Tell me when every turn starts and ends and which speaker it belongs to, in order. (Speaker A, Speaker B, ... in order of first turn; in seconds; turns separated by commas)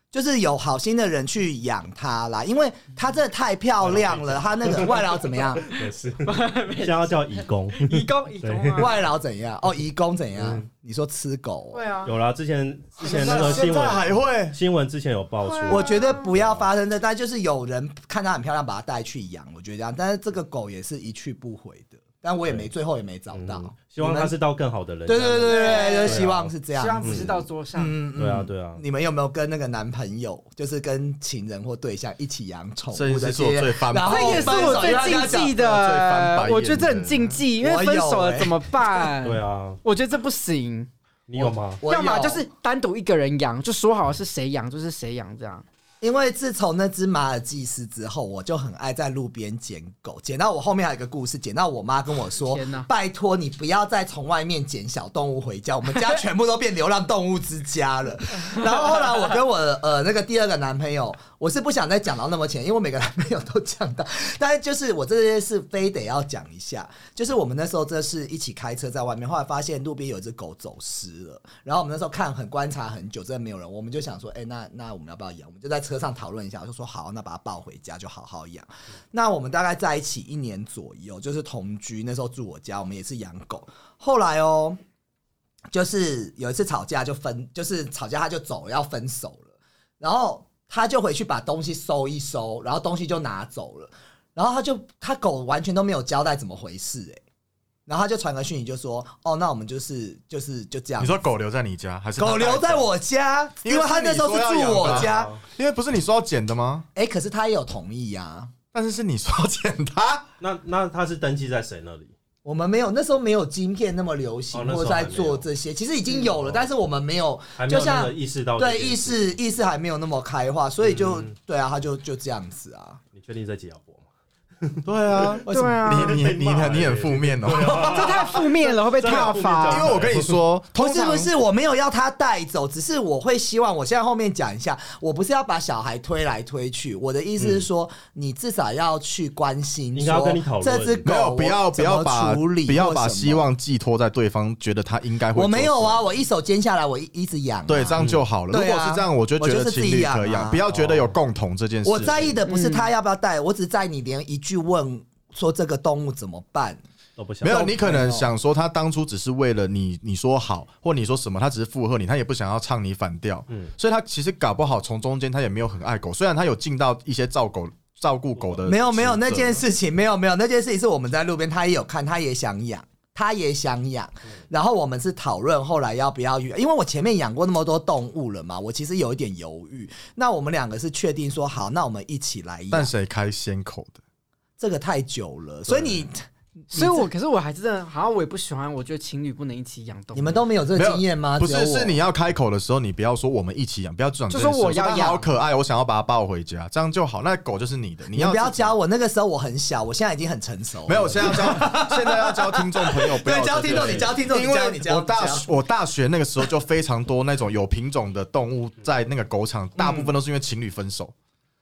Speaker A: 0.1-5.7, Speaker B: 3.8-8.9, Speaker C: 6.2-9.1, Speaker A: 8.8-11.9, Speaker B: 10.4-10.6, Speaker C: 11.7-12.1, Speaker B: 12.0-16.7, Speaker D: 13.0-14.6, Speaker C: 13.2-13.7, Speaker C: 15.4-16.3, Speaker A: 15.7-24.3, Speaker B: 23.3-27.4, Speaker A: 25.1-35.5, Speaker C: 25.4-28.0, Speaker B: 28.1-28.8, Speaker D: 32.9-37.4, Speaker C: 34.0-40.9, Speaker A: 37.6-39.1, Speaker B: 39.2-39.8, Speaker B: 41.3-41.8, Speaker A: 41.8-42.4, Speaker C: 41.9-45.6, Speaker A: 46.0-84.8, Speaker C: 52.4-52.9, Speaker A: 85.7-97.2, Speaker A: 97.9-101.2, Speaker D: 101.0-102.9, Speaker A: 102.2-105.3, Speaker D: 103.6-106.9, Speaker B: 104.8-105.4, Speaker A: 106.9-108.5, Speaker D: 108.7-110.3, Speaker B: 110.4-112.1, Speaker A: 112.4-123.0, Speaker B: 114.5-115.5, Speaker B: 116.1-116.6, Speaker B: 117.6-119.5, Speaker B: 120.8-121.3, Speaker B: 123.1-124.1, Speaker B: 124.6-130.4, Speaker D: 124.8-128.3, Speaker A: 125.5-125.8, Speaker C: 125.5-126.2, Speaker C: 127.8-129.9, Speaker D: 129.0-131.3, Speaker A: 130.8-143.4, Speaker B: 137.4-137.7, Speaker B: 139.9-141.1, Speaker D: 141.0-146.1, Speaker A: 145.3-150.6, Speaker D: 147.7-152.3, Speaker B: 148.0-148.2, Speaker B: 150.7-151.2, Speaker A: 151.8-156.8, Speaker C: 152.5-152.9, Speaker B: 157.2-157.7, Speaker A: 157.4-158.3, Speaker D: 157.4-169.6, Speaker A: 168.7-182.9, Speaker D: 182.7-184.0, Speaker A: 184.6-186.2, Speaker A: 186.7-187.1, Speaker C: 186.7-190.4, Speaker A: 190.1-192.0, Speaker D: 190.8-198.7, Speaker C: 194.3-195.2, Speaker A: 198.1-205.5, Speaker D: 200.9-211.1, Speaker B: 203.6-204.2, Speaker A: 209.8-210.1